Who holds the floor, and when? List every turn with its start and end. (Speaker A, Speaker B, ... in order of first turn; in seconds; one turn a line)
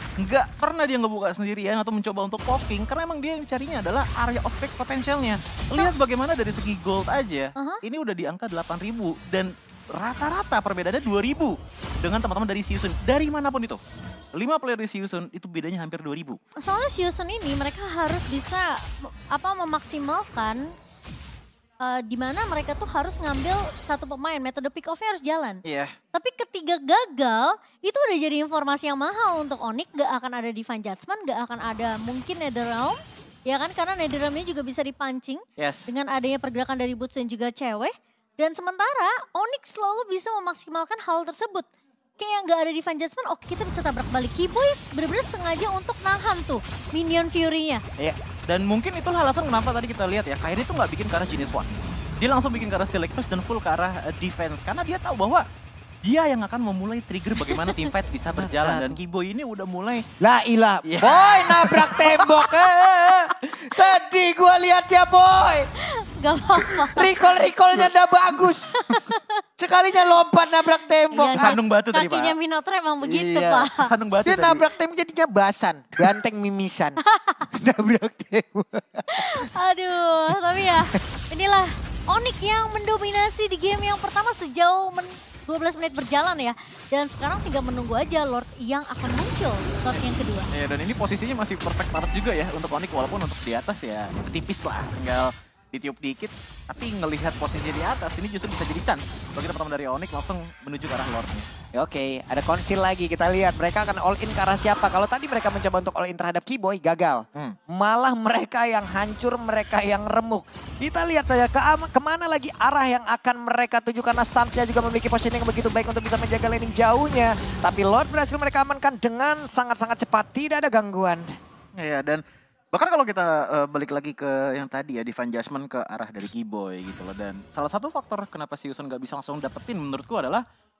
Speaker A: 0.2-13.8
Speaker A: 14.3-16.4
Speaker B: 16.6-20.7
Speaker B: 21.8-25.6
Speaker A: 25.6-25.9
Speaker B: 26.1-47.8
Speaker A: 35.6-35.9
Speaker A: 48.5-51.7
Speaker A: 52.2-55.4
Speaker A: 56.0-60.0
Speaker B: 57.4-57.9
Speaker C: 58.3-59.0
Speaker C: 60.2-65.7
Speaker A: 60.8-63.3
Speaker B: 66.1-67.2
Speaker C: 66.9-68.7
Speaker B: 68.7-69.4
Speaker C: 69.6-71.6
Speaker B: 71.1-73.9
Speaker A: 71.3-72.3
Speaker A: 73.0-74.6
Speaker C: 74.2-77.0
Speaker B: 77.0-77.5
Speaker C: 77.5-79.5
Speaker B: 79.1-90.5
Speaker A: 89.9-101.5
Speaker C: 101.7-121.2
Speaker A: 121.7-130.4